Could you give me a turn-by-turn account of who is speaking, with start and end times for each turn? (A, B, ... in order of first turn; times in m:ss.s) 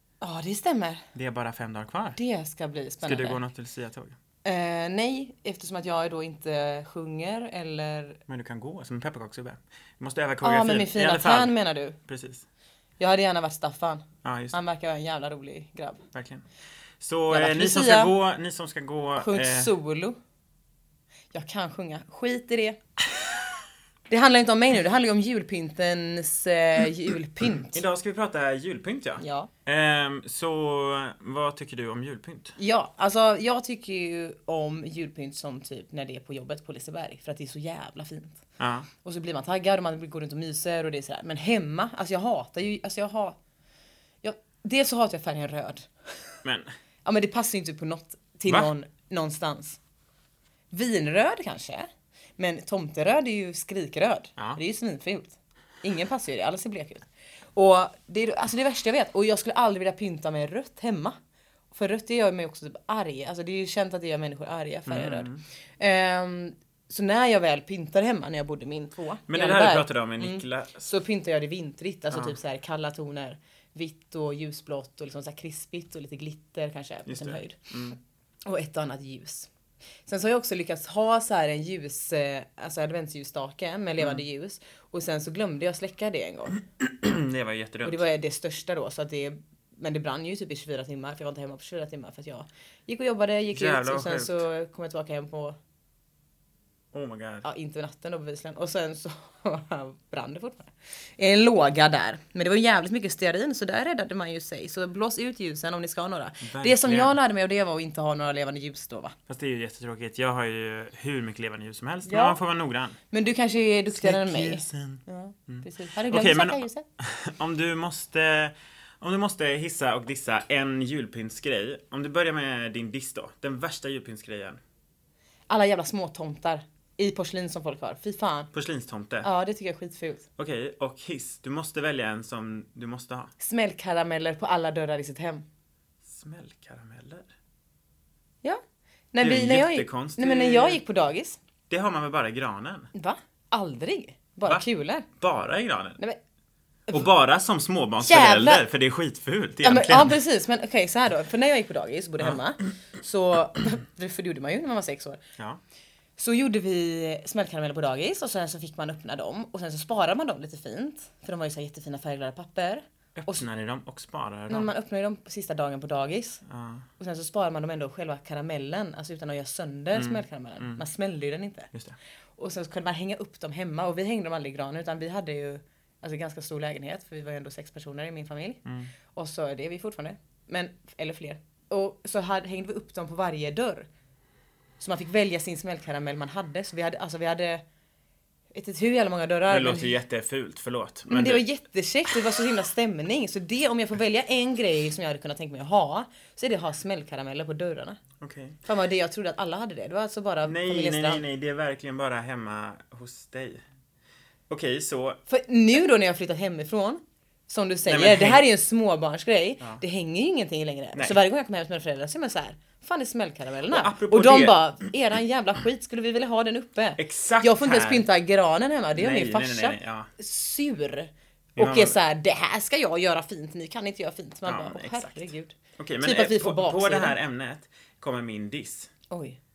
0:00.2-0:01.0 A
0:01.1-0:02.2 B
0:02.2-0:03.4 A
0:03.0-0:04.2 B
0:04.4-0:08.2 A
0:08.3-0:11.5 B
0:10.4-0:12.0 A
0:12.1-0:12.4 B
0:13.0-0:16.0 A
0:14.2-0:14.6 B
0:16.1-0:16.4 B
0:17.0-0:19.7 B
0:17.3-0:18.1 A
0:19.2-0:20.2 A
0:21.3-0:22.8 A
0:24.1-0:27.8 A
0:27.7-0:32.6 B
0:29.2-0:29.5 A
0:32.6-0:38.4 A
0:38.6-0:38.9 B
0:39.0-0:43.4 A
0:44.2-0:45.9 A
0:46.4-0:46.7 B
0:47.0-0:49.8 A
0:50.7-0:51.9 A
0:52.4-1:01.1 A
1:01.7-1:17.7 A
1:04.9-1:05.4 B
1:09.3-1:10.9 B
1:12.1-1:12.4 B
1:17.0-1:18.0 B
1:18.4-1:19.5 A
1:20.0-1:26.6 A
1:26.8-1:28.0 B
1:27.8-1:35.6 A
1:33.5-1:34.4 B
1:36.9-1:37.4 B
1:37.4-1:49.1 A
1:46.4-1:47.1 B
1:49.3-1:53.0 B
1:52.0-1:52.4 A
1:53.1-1:56.8 A
1:53.9-2:04.6 B
2:05.5-2:08.5 A
2:08.5-2:09.3 B
2:09.2-2:10.2 A
2:10.4-2:13.3 B
2:13.4-2:15.4 A
2:16.0-2:17.3 B
2:19.1-2:21.4 A
2:19.2-2:20.8 B
2:21.7-2:22.9 B
2:22.9-2:25.1 A
2:25.2-2:26.0 B
2:26.9-2:30.2 B
2:28.0-2:28.6 A
2:29.6-2:35.2 A
2:36.2-2:43.4 A
2:43.2-2:44.7 B
2:44.5-2:46.4 A
2:46.4-2:46.9 B
2:47.0-2:51.7 A
2:49.9-2:50.8 B
2:51.7-2:52.0 B
2:52.4-3:03.9 A
2:58.6-2:58.9 B
3:04.8-3:07.6 A
3:08.5-3:10.0 A
3:09.5-3:11.4 B
3:11.1-3:18.0 A
3:12.1-3:12.4 B
3:18.2-3:18.6 B
3:18.6-3:21.2 A
3:20.4-3:23.6 B
3:24.5-3:25.2 B
3:25.3-3:47.2 A
3:27.8-3:28.4 B
3:33.7-3:34.6 B
3:37.0-3:38.0 B
3:38.9-3:40.1 B
3:41.6-3:42.0 B
3:44.4-3:48.9 B
3:49.1-3:49.4 A